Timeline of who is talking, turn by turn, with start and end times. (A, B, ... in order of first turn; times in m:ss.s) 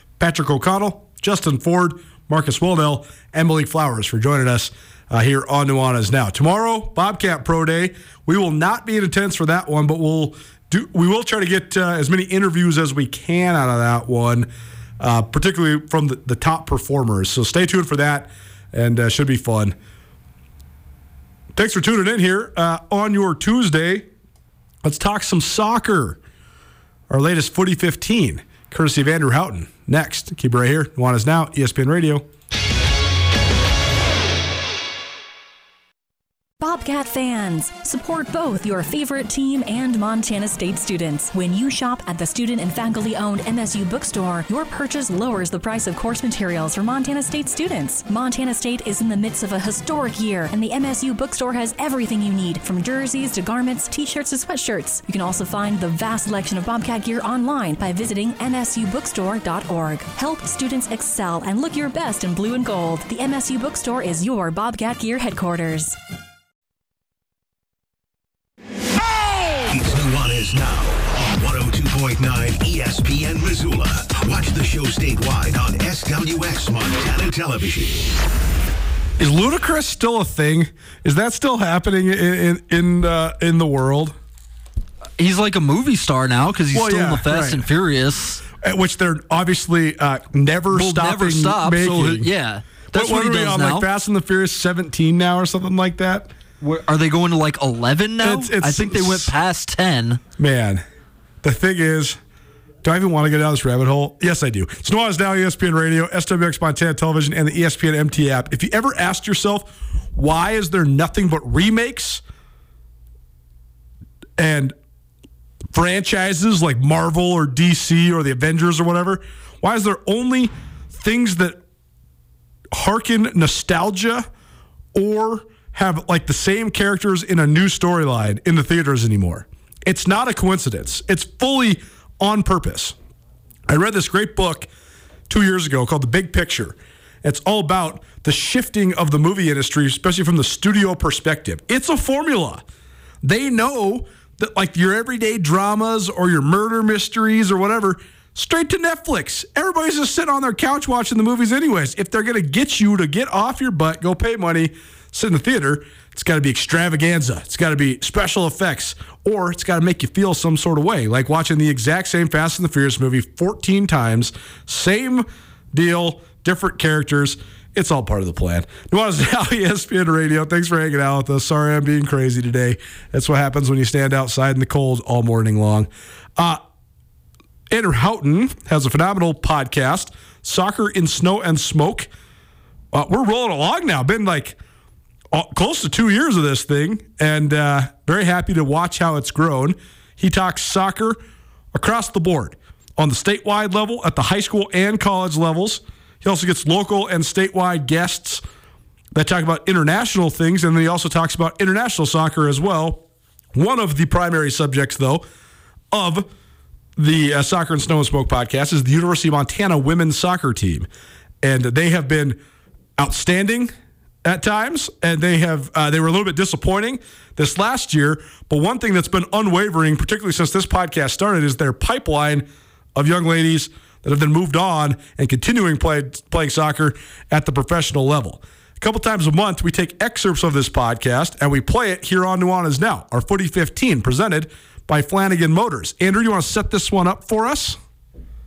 0:00.2-0:14.5 A
0:15.0-0:19.7 A
0:21.5-0:24.1 A
0:24.8-0:26.2 A
0:27.1-0:32.2 A
0:36.6-1:06.0 B
1:09.7-1:18.1 C
1:19.2-1:24.1 A
1:25.2-1:28.4 D
1:26.7-1:27.6 A
1:28.6-1:32.3 A
1:30.7-1:33.8 D
1:32.9-1:36.3 A
1:36.6-1:40.1 D
1:38.2-1:39.3 A
1:40.4-1:40.8 A
1:41.4-1:42.2 A
1:42.8-1:52.2 A
1:54.4-1:54.7 A
1:55.7-2:01.6 A
2:02.7-2:04.3 A
2:04.9-2:12.9 A
2:13.7-2:14.7 A
2:15.3-2:22.6 A
2:23.2-2:56.6 A
2:57.7-3:02.1 A
3:02.9-3:04.6 A
3:05.3-3:11.2 A
3:11.7-3:18.4 A
3:19.1-3:23.0 A
3:23.5-3:25.2 A
3:25.9-3:26.3 A
3:27.0-3:30.9 A
3:31.4-3:32.4 A
3:33.0-3:33.7 A
3:34.2-3:57.8 A